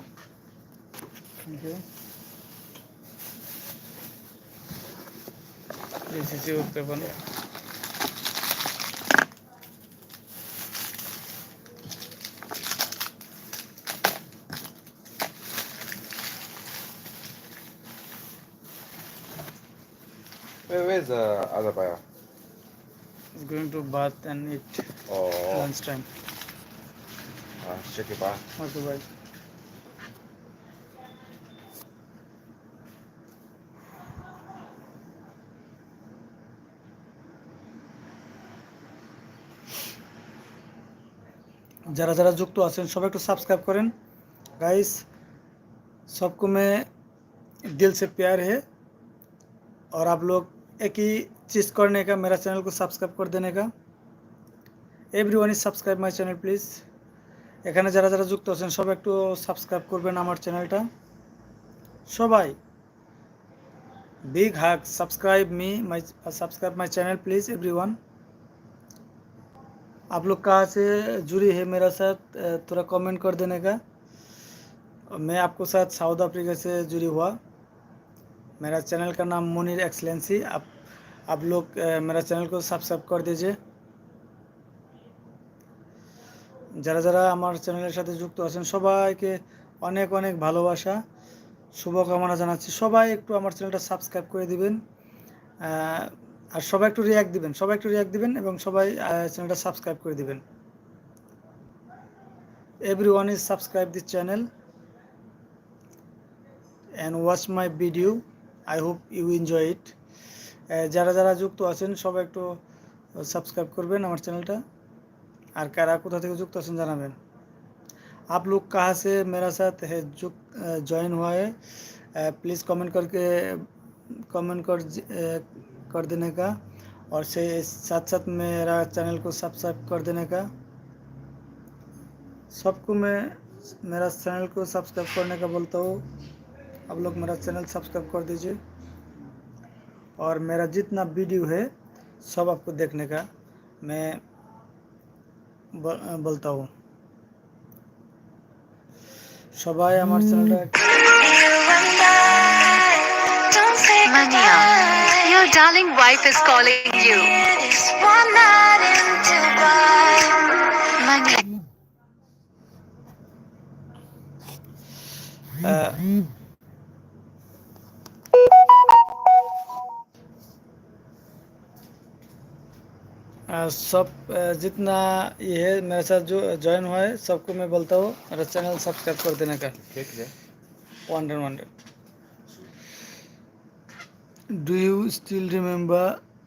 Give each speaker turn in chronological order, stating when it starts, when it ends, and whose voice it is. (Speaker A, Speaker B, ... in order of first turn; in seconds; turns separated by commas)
Speaker A: 1.4-1.8, Speaker A: 6.1-7.1, Speaker B: 20.7-22.0, Speaker A: 23.4-24.9, Speaker B: 25.1-25.7, Speaker A: 25.5-26.1, Speaker B: 27.6-28.5, Speaker A: 28.6-29.0, Speaker A: 41.9-43.9, Speaker A: 44.6-45.0, Speaker A: 46.1-46.9, Speaker A: 47.7-48.6, Speaker A: 49.9-53.7, Speaker A: 55.1-56.8, Speaker A: 57.6-60.9, Speaker A: 62.1-62.6, Speaker A: 64.3-68.0, Speaker A: 70.1-73.8, Speaker A: 75.1-77.4, Speaker A: 78.6-80.7, Speaker A: 81.3-83.6, Speaker A: 86.8-91.0, Speaker A: 91.7-94.8, Speaker A: 95.6-100.4, Speaker A: 102.8-104.5, Speaker A: 107.0-109.9, Speaker A: 110.7-112.6, Speaker A: 113.2-114.6, Speaker A: 115.5-117.2, Speaker A: 118.3-121.5, Speaker A: 122.2-126.6, Speaker A: 127.1-130.5, Speaker A: 132.5-136.0, Speaker A: 136.9-138.6, Speaker A: 140.2-141.7, Speaker A: 142.2-143.3, Speaker A: 143.8-144.2, Speaker A: 145.7-146.7, Speaker A: 149.6-150.7, Speaker C: 150.8-161.4, Speaker A: 165.6-166.0, Speaker A: 173.5-179.8, Speaker B: 179.8-180.3, Speaker A: 181.1-181.7, Speaker A: 184.5-186.2